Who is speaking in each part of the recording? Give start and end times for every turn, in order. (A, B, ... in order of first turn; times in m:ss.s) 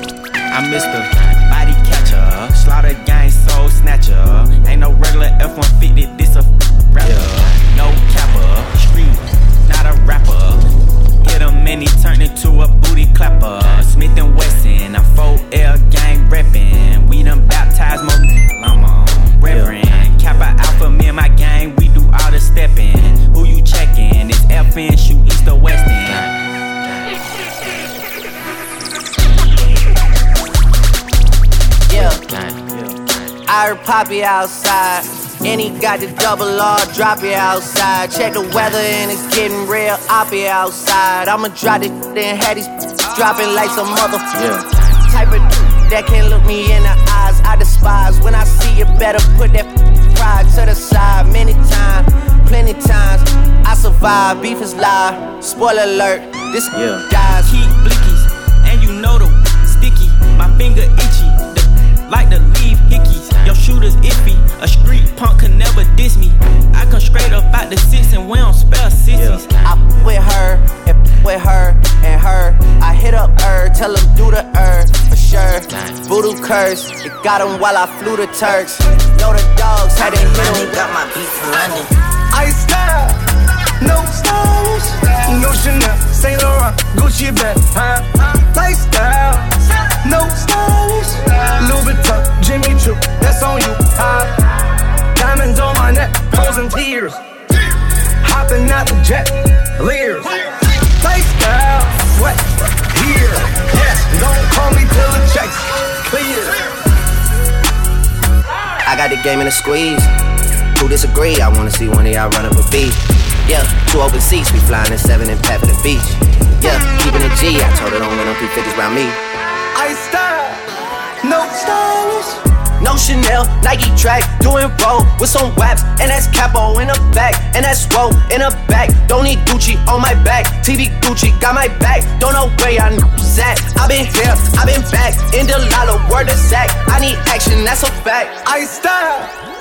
0:00.5-0:10.6 A
0:11.2-0:26.3 A
0:31.9-0:32.2 B
0:33.5-0:44.4 B
0:45.1-0:57.6 B
0:57.4-1:09.5 A
1:09.6-1:21.0 B
1:22.3-1:23.2 C
1:23.8-1:29.4 C
1:30.0-1:34.3 C
1:35.2-1:37.2 C
1:38.2-1:46.6 C
1:48.8-1:50.1 B
1:50.8-1:59.2 B
1:59.8-2:00.6 C
2:01.2-2:02.4 C
2:02.8-2:18.4 B
2:18.4-2:19.3 C